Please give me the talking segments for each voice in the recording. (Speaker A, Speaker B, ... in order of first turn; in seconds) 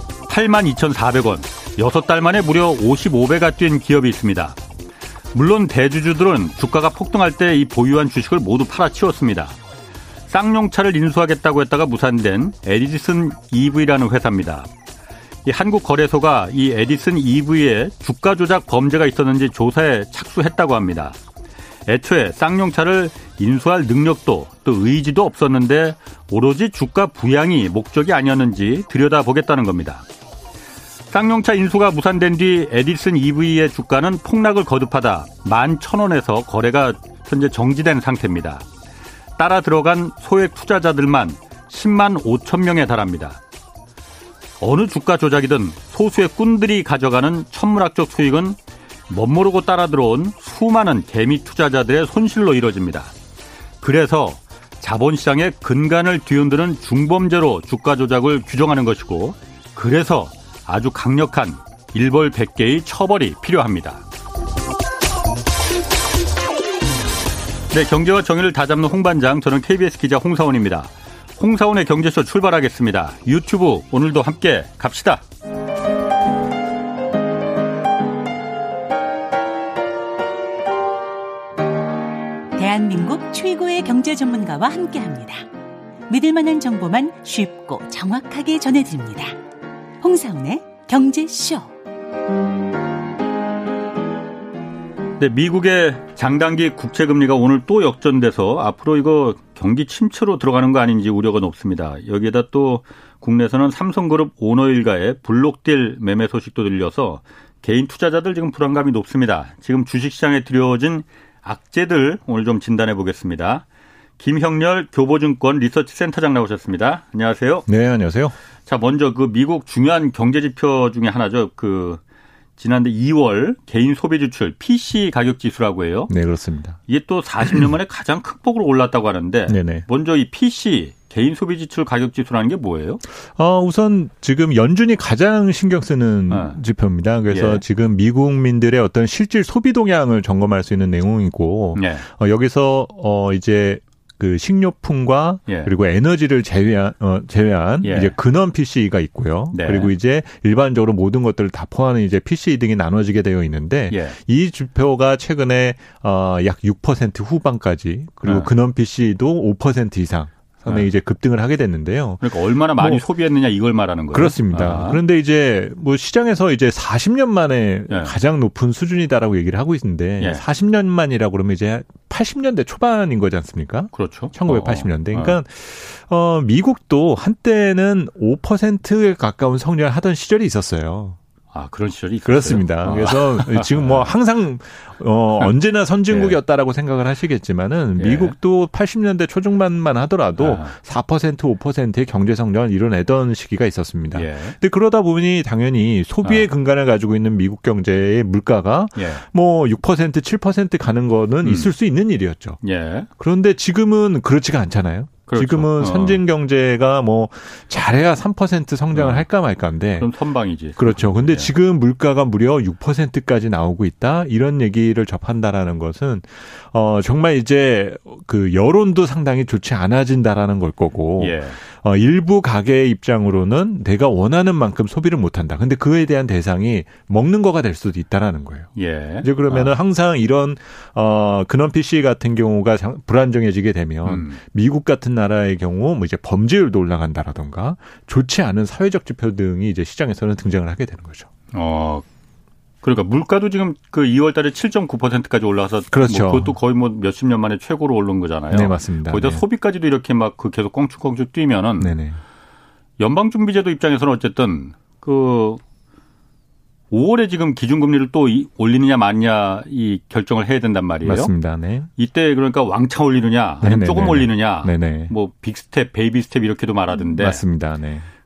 Speaker A: 0.3-4.6, 5.3-9.6, 10.3-14.7, 15.4-21.2, 21.9-30.1, 31.1-38.7, 39.4-43.4, 44.6-53.1, 53.8-64.0, 67.7-75.2, 95.2-113.7, 114.2-117.7, 118.7-122.0, 122.6-126.1, 126.9-133.0, 136.3-136.6, 137.3-137.6, 141.8-142.1, 145.5-145.7, 147.8-148.1, 149.5-149.9, 153.9-154.2, 158.2-158.5, 162.2-165.0, 167.9-168.1, 173.9-175.4, 181.5-184.1, 186.1-186.4, 188.0-188.3, 190.4-190.8, 194.1-194.6, 199.0-199.2, 201.4-201.7, 202.6-203.1, 205.3-206.2, 208.9-209.3, 210.0-211.5, 221.2-221.6, 228.8-229.7, 234.1-234.4, 241.5-242.1, 242.8-252.0, 253.0-255.6, 256.9-261.3, 262.0-267.4
Speaker B: 82.6-85.4, 86.1-89.3, 90.0-91.7
Speaker C: 117.7-118.3, 126.1-126.8, 127.4-127.7, 129.5-129.8, 133.4-162.2, 162.8-163.0, 164.1-181.2, 182.3-202.6, 203.2-210.1, 210.8-228.7, 229.2-241.3, 245.9-246.5, 248.5-249.4, 251.8-252.2, 261.0-261.9, 263.6-265.1, 267.1-268.1